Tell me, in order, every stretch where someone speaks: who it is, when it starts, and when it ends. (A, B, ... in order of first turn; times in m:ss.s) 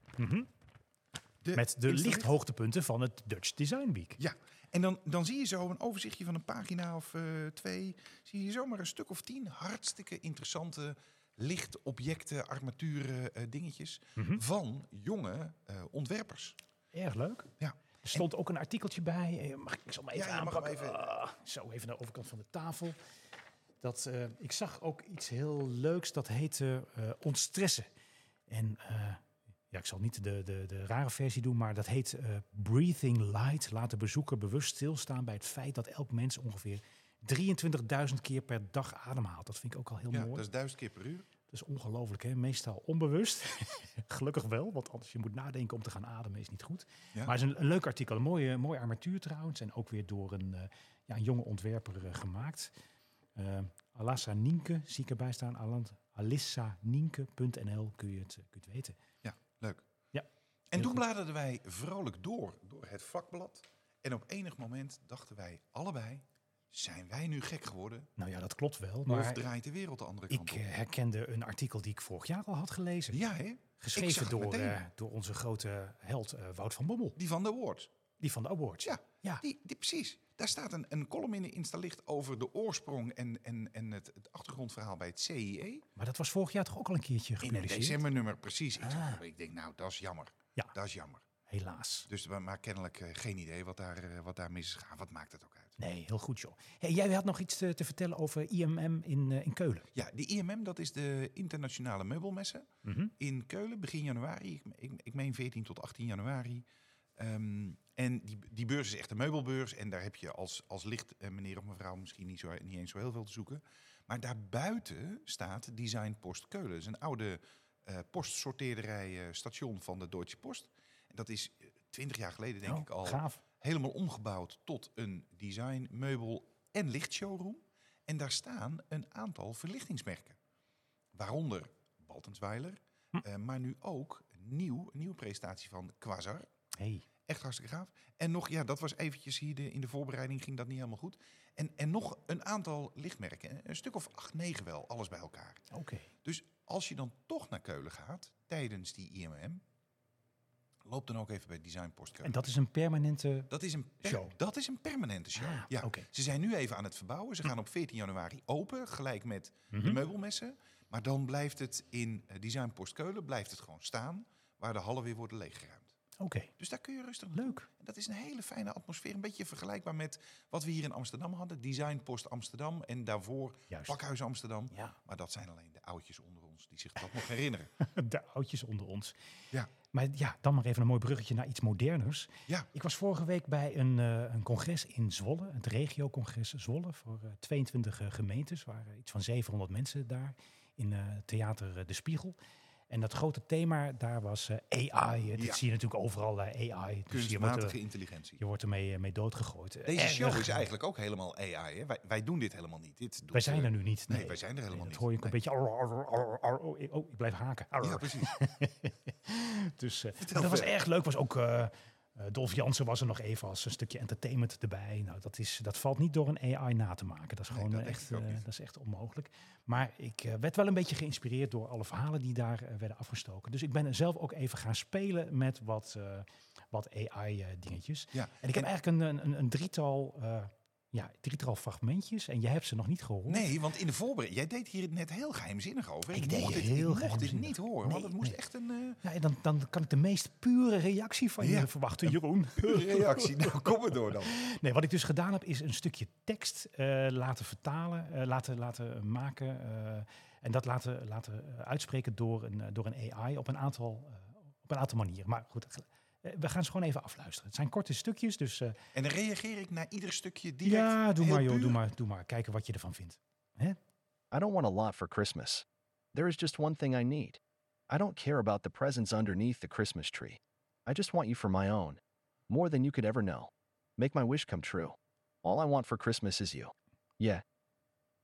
0:00.2-0:00.5 A
0:01.4-0:02.3 B
0:01.5-0:04.2 A
0:04.2-0:16.6 B
0:14.2-0:14.4 A
0:16.9-0:17.5 A
0:17.6-0:18.3 B
0:18.0-0:23.0 A
0:20.1-0:21.1 B
0:23.8-0:27.9 A
0:28.5-0:40.5 A
0:40.1-0:41.3 B
0:41.5-0:52.7 A
0:53.4-0:59.0 A
0:59.2-0:59.8 B
1:00.1-1:01.0 A
1:00.7-1:08.1 B
1:08.2-1:09.4 A
1:09.1-1:10.7 B
1:10.3-1:13.2 A
1:13.1-1:14.8 B
1:13.8-1:17.2 A
1:17.2-1:17.9 B
1:18.2-1:19.4 A
1:18.8-1:25.9 B
1:26.0-1:28.0 A
1:27.4-1:31.2 B
1:28.8-1:29.2 A
1:31.5-1:32.1 A
1:32.1-1:35.8 B
1:35.8-1:39.9 A
1:39.9-1:46.7 B
1:42.8-1:43.1 A
1:47.2-2:10.4 B
2:02.6-2:03.4 A
2:11.1-2:16.5 B
2:16.8-2:17.1 A
2:17.3-2:25.6 B
2:25.7-2:26.1 A
2:26.2-2:29.6 B
2:30.8-2:32.5 B
2:32.2-2:33.5 A
2:33.5-2:45.9 B
2:34.0-2:34.4 A
2:35.4-2:36.1 A
2:39.7-2:40.0 A
2:46.2-2:46.5 A
2:46.6-2:57.7 B
2:47.4-2:47.7 A
2:53.7-2:54.0 A
2:54.7-2:55.0 A
2:57.8-2:59.2 A
2:59.9-3:12.4 A
3:12.9-3:17.8 A
3:15.4-3:15.6 B
3:17.1-3:18.4 B
3:18.4-3:20.6 A
3:19.9-3:25.4 B
3:23.3-3:53.5 A
3:27.8-3:28.3 B
3:30.2-3:30.7 B
3:37.5-3:38.4 B
3:48.1-3:48.7 B
3:53.3-3:59.0 B
3:56.1-3:58.4 A
3:59.0-4:03.7 A
4:01.4-4:04.4 B
4:04.2-4:18.8 A
4:18.9-4:21.8 B
4:20.6-4:23.8 A
4:24.3-4:37.4 C